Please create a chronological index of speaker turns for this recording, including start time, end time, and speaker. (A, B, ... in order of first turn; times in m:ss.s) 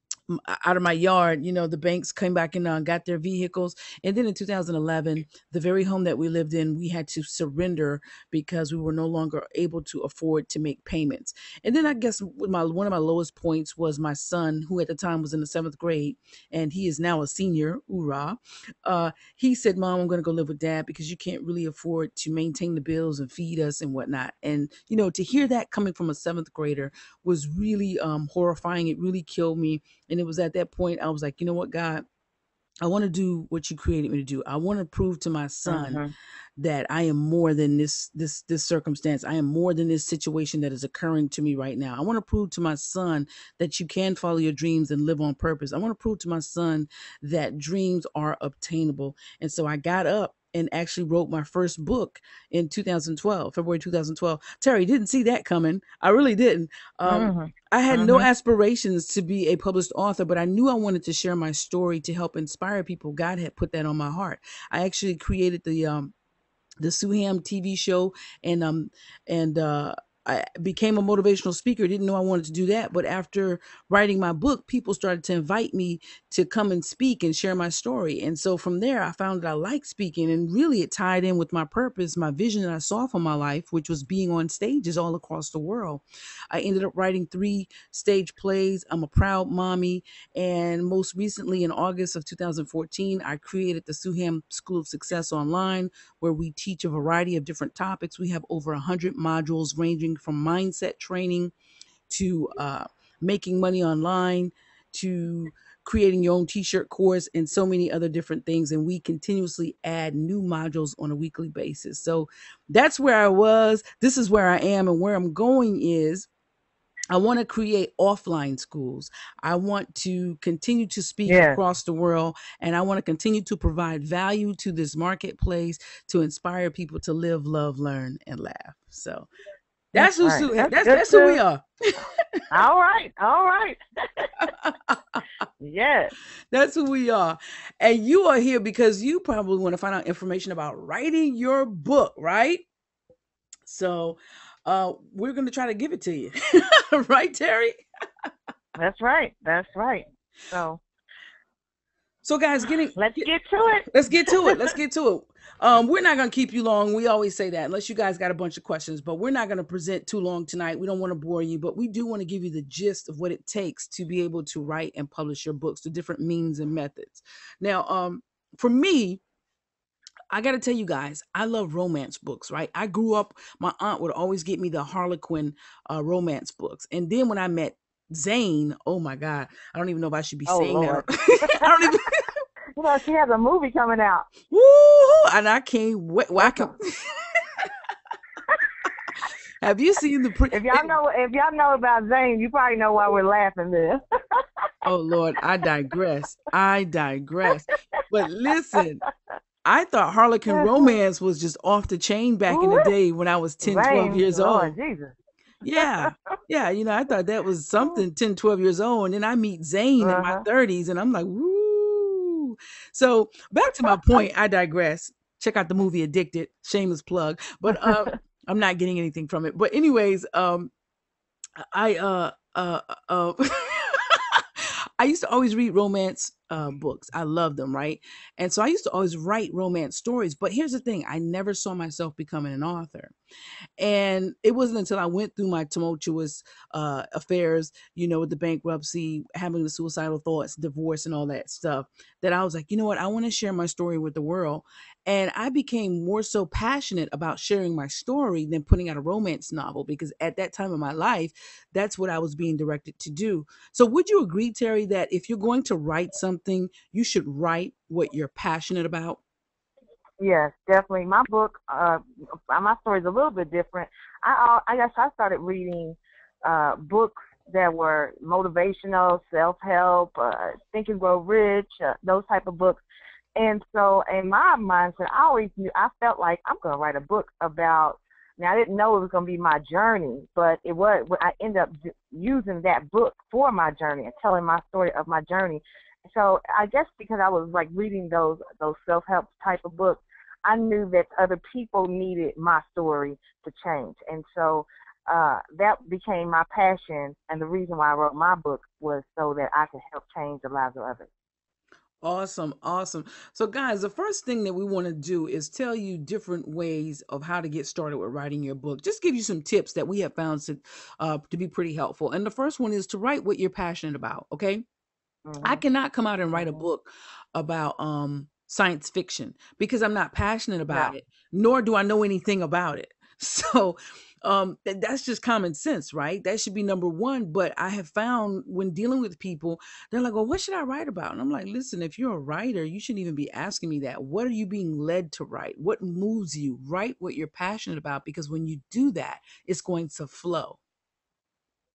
0:00.3-0:32.0 A
0:32.8-0:36.0 A
0:35.7-0:36.1 B
0:36.6-1:06.1 A
0:57.1-0:58.3 B
1:06.8-1:41.5 A
1:42.1-1:56.3 A
1:57.1-2:09.3 A
2:01.2-2:01.6 B
2:09.9-2:11.6 A
2:10.0-2:11.4 B
2:12.2-2:12.4 A
2:12.5-2:14.4 B
2:14.4-2:15.2 A
2:15.6-2:16.1 B
2:16.5-2:22.6 A
2:23.6-2:28.3 A
2:28.8-2:30.8 B
2:32.2-2:33.3 A
2:33.0-2:34.7 B
2:33.9-2:49.2 A
2:50.3-3:02.4 A
3:00.5-3:02.0 B
3:02.8-3:04.3 B
3:04.5-3:07.7 A
3:06.4-3:06.7 B
3:08.5-3:09.3 B
3:09.6-3:10.9 A
3:10.5-3:14.4 B
3:14.8-3:19.0 A
3:19.6-3:24.8 A
3:20.5-3:20.9 B
3:22.5-3:22.9 B
3:23.6-3:25.2 B
3:25.6-3:40.7 A
3:25.8-3:26.1 B
3:30.0-3:30.4 B
3:37.7-3:38.1 B
3:41.6-3:53.1 A
3:53.8-4:19.2 A
4:20.2-4:32.8 B
4:33.4-5:01.1 B
5:02.0-5:14.6 A
5:15.2-5:15.6 B
5:15.4-5:40.6 A
5:16.3-5:16.6 B